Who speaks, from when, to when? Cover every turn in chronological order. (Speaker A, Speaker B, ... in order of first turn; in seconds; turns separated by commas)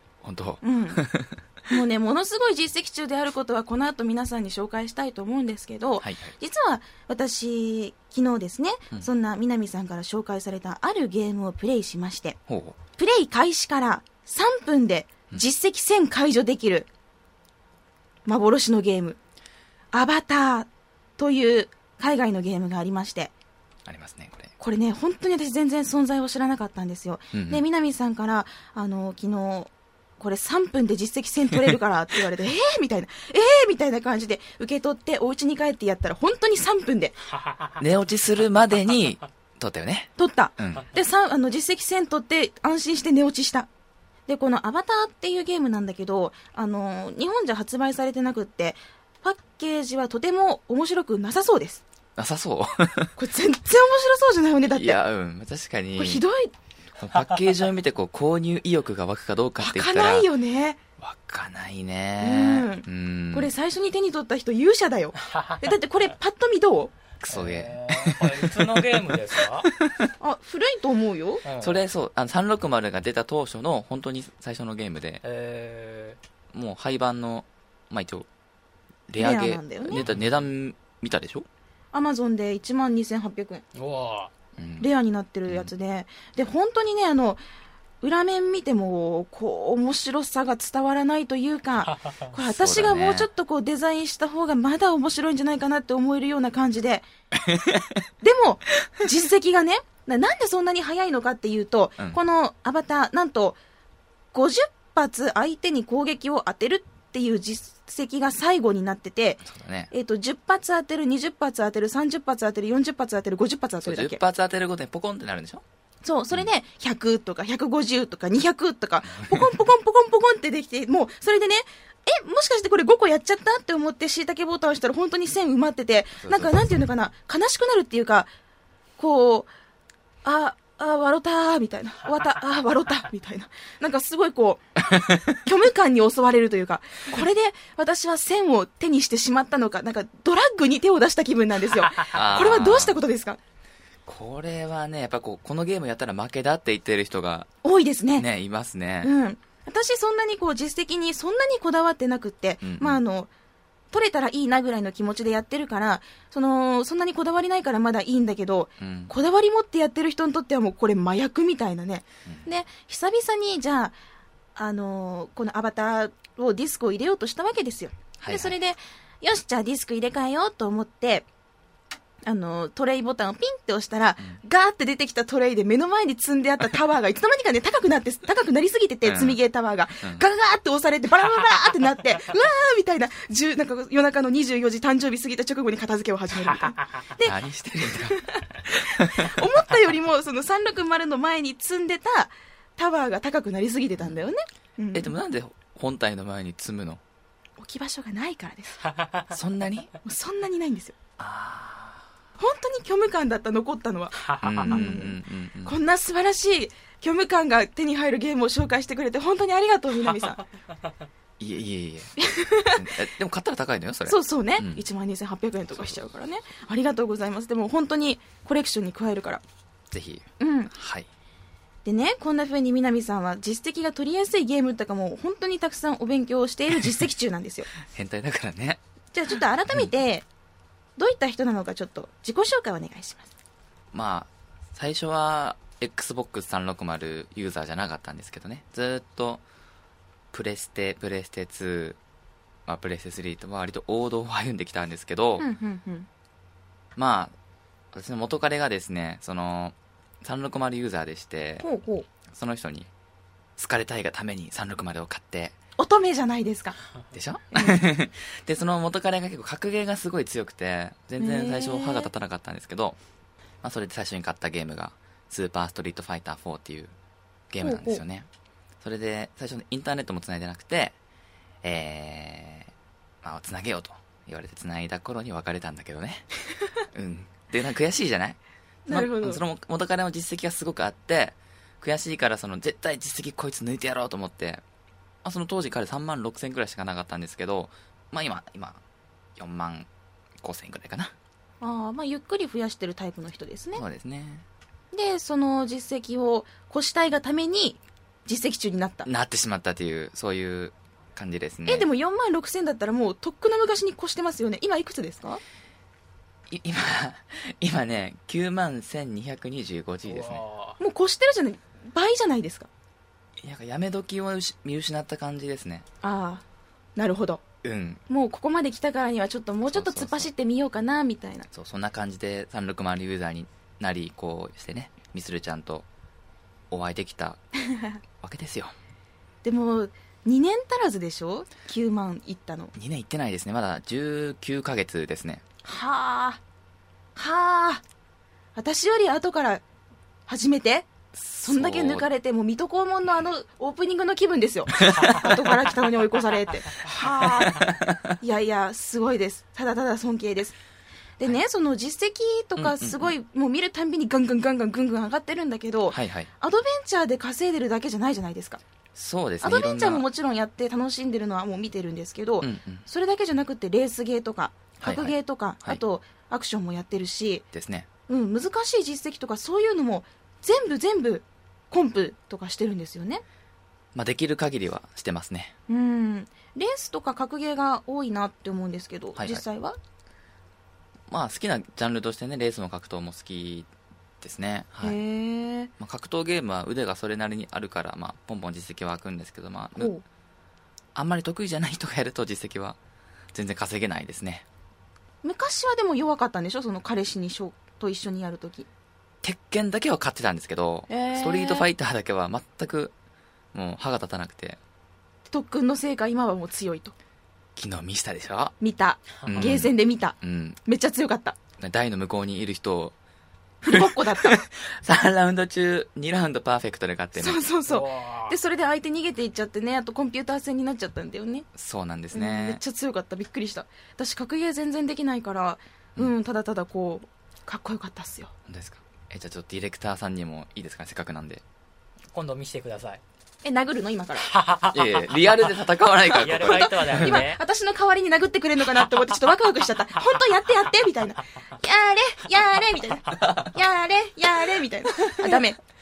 Speaker A: 0.2-1.4, Speaker B: 0.6-1.1, Speaker B: 1.7-12.4, Speaker A: 6.0-6.3, Speaker A: 12.5-12.8, Speaker B: 13.0-16.9, Speaker B: 18.3-19.2, Speaker B: 19.9-23.3, Speaker A: 23.9-24.5, Speaker B: 24.6-37.2, Speaker A: 27.3-27.6, Speaker A: 37.8-40.9, Speaker B: 40.2-43.7, Speaker B: 44.3-51.8, Speaker A: 52.2-53.1, Speaker B: 53.2-55.0, Speaker A: 54.7-56.2, Speaker B: 56.0-56.5, Speaker A: 57.0-60.3, Speaker B: 59.6-60.8, Speaker A: 61.0-63.5, Speaker B: 62.2-66.9, Speaker A: 67.2-68.8, Speaker C: 67.3-69.7, Speaker B: 70.2-71.4, Speaker C: 71.5-71.8, Speaker A: 71.6-75.2, Speaker C: 75.2-76.2, Speaker A: 76.5-78.3, Speaker A: 79.1-81.5, Speaker B: 79.2-80.0, Speaker C: 80.0-80.2, Speaker B: 81.9-83.6, Speaker C: 83.8-84.3, Speaker A: 84.6-84.9, Speaker B: 84.8-87.4, Speaker B: 88.0-97.1, Speaker A: 92.4-93.3, Speaker A: 97.4-97.9, Speaker B: 98.2-103.6, Speaker B: 104.3-114.2, Speaker A: 109.4-109.9, Speaker A: 113.8-115.6, Speaker B: 116.0-128.3, Speaker A: 119.1-119.5, Speaker A: 126.2-126.5, Speaker B: 129.0-129.5, Speaker B: 130.2-134.6, Speaker A: 134.9-135.2, Speaker B: 135.4-143.4, Speaker A: 142.1-143.0, Speaker A: 144.1-147.5, Speaker B: 147.6-148.3, Speaker A: 148.2-149.1, Speaker B: 149.0-153.3, Speaker A: 152.6-153.0, Speaker B: 153.9-164.0, Speaker A: 158.8-159.1, Speaker B: 164.6-171.3, Speaker A: 168.2-168.6, Speaker B: 172.2-187.4, Speaker A: 179.0-179.4, Speaker A: 187.2-188.3, Speaker B: 187.9-195.1, Speaker A: 188.8-189.3, Speaker A: 194.9-197.0, Speaker B: 197.6-198.8, Speaker A: 199.3-199.9, Speaker B: 200.0-200.9, Speaker A: 201.2-201.9, Speaker B: 202.4-210.4, Speaker C: 204.2-204.8, Speaker A: 204.4-205.7, Speaker A: 211.4-212.2, Speaker B: 212.2-212.8, Speaker A: 212.7-214.8, Speaker B: 214.1-219.4, Speaker A: 219.9-221.1, Speaker B: 220.4-220.7, Speaker B: 221.8-227.7, Speaker A: 227.8-228.8, Speaker B: 229.1-230.3, Speaker B: 231.0-233.3, Speaker A: 233.9-239.4, Speaker A: 240.3-242.0, Speaker A: 242.7-245.5, Speaker B: 245.4-246.1, Speaker A: 247.0-247.3, Speaker A: 247.9-251.7, Speaker B: 251.6-252.1, Speaker A: 252.3-252.9, Speaker A: 253.6-255.6, Speaker B: 255.8-256.8, Speaker A: 257.1-263.0, Speaker B: 257.5-257.8, Speaker B: 261.2-262.1, Speaker A: 263.6-266.9, Speaker A: 267.5-268.3, Speaker B: 267.6-268.0, Speaker A: 268.8-270.9, Speaker A: 271.6-276.3, Speaker A: 276.9-278.4, Speaker B: 278.9-279.4, Speaker A: 278.9-284.6, Speaker A: 285.2-288.8, Speaker A: 289.4-289.9, Speaker A: 290.4-291.1, Speaker B: 291.6-293.9, Speaker A: 293.8-294.4, Speaker B: 294.9-299.1, Speaker A: 299.1-301.9, Speaker B: 301.7-305.4, Speaker A: 306.5-310.4, Speaker C: 310.1-310.8, Speaker B: 310.8-312.7, Speaker A: 313.4-315.9, Speaker B: 316.0-316.4, Speaker B: 317.0-317.4, Speaker A: 317.6-318.0, Speaker B: 318.1-321.5, Speaker A: 319.7-320.3, Speaker A: 321.5-325.9, Speaker A: 326.7-327.4, Speaker B: 327.7-328.0, Speaker A: 328.2-328.7, Speaker B: 329.4-332.7, Speaker A: 332.8-335.4, Speaker B: 335.6-336.4, Speaker B: 337.2-337.8, Speaker B: 338.6-339.6, Speaker B: 340.3-340.9, Speaker A: 341.1-342.1, Speaker B: 341.4-347.6, Speaker A: 344.8-345.5, Speaker A: 347.2-348.1, Speaker B: 348.2-350.6, Speaker B: 351.2-358.6, Speaker A: 352.6-353.1, Speaker A: 355.9-356.3, Speaker A: 358.9-360.1, Speaker B: 359.4-367.4, Speaker A: 362.4-362.9, Speaker A: 364.8-365.8, Speaker A: 367.5-367.9, Speaker B: 368.1-373.2, Speaker A: 373.9-375.5, Speaker B: 375.7-379.8, Speaker A: 379.2-379.4, Speaker A: 381.1-383.7, Speaker A: 384.2-385.0, Speaker B: 384.8-385.7, Speaker A: 385.8-389.9, Speaker B: 389.8-390.0, Speaker A: 390.9-392.8, Speaker A: 393.3-394.4, Speaker B: 395.2-398.7, Speaker A: 399.2-402.9, Speaker B: 400.9-401.7, Speaker A: 403.5-404.6, Speaker B: 405.3-406.9, Speaker A: 407.6-408.6, Speaker B: 408.6-411.4, Speaker C: 409.2-409.5, Speaker A: 409.2-410.6, Speaker A: 411.6-412.9, Speaker B: 413.6-414.4, Speaker A: 413.6-417.4, Speaker B: 417.2-421.5, Speaker C: 417.7-418.4, Speaker A: 421.6-422.6, Speaker B: 422.1-428.3, Speaker A: 428.5-431.4, Speaker C: 432.1-433.0, Speaker B: 433.4-434.3, Speaker C: 434.3-435.2, Speaker A: 434.7-437.2, Speaker C: 436.2-437.4, Speaker B: 436.3-445.6, Speaker A: 443.1-443.6, Speaker A: 445.0-445.4